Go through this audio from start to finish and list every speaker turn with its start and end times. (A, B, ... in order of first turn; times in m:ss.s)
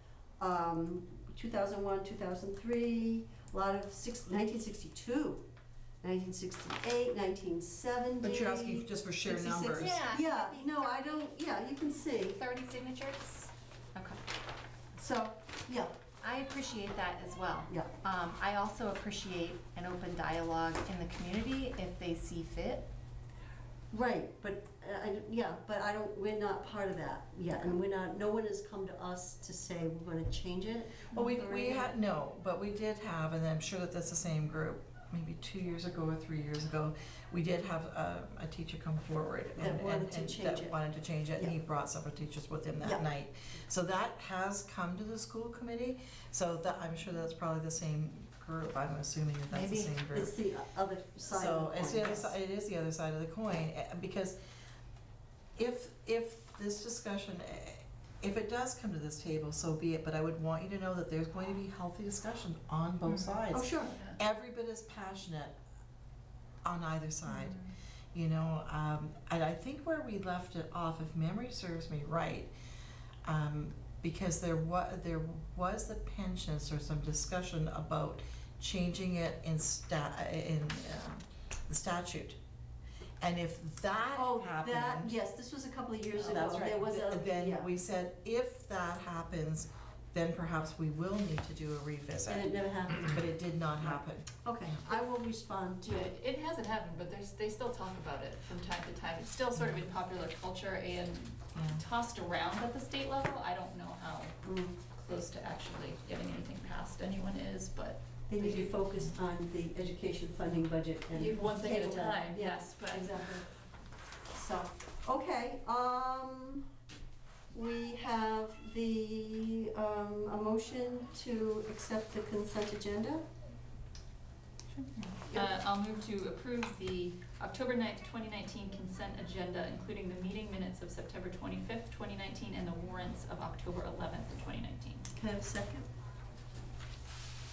0:00.4-0:05.4 A
0:06.0-0:12.4 A
0:08.2-0:10.0 B
0:09.8-0:11.2 C
0:12.3-0:14.2 C
0:15.0-0:15.9 A
0:16.2-0:22.8 C
0:23.9-0:31.9 A
0:31.1-0:50.3 B
0:39.6-0:40.8 A
0:42.8-0:43.1 A
0:49.5-0:49.9 C
0:50.1-0:52.4 A
0:51.3-0:54.4 B
0:55.6-1:05.6 B
1:03.1-1:03.4 C
1:03.5-1:04.0 A
1:03.9-1:04.2 D
1:06.6-1:07.6 B
1:07.2-1:07.7 C
1:08.1-1:12.5 B
1:13.2-1:22.4 B
1:23.2-1:25.2 B
1:24.1-1:27.7 A
1:26.2-1:26.4 D
1:26.3-1:34.9 B
1:32.3-1:33.3 A
1:33.8-1:36.0 A
1:35.8-1:49.0 D
1:39.6-1:39.8 B
1:41.5-1:41.8 B
1:44.4-1:44.8 A
1:48.3-1:53.4 A
1:51.1-1:53.5 D
1:54.4-1:56.7 A
1:57.5-2:03.2 A
2:04.7-2:15.1 D
2:15.1-2:15.9 A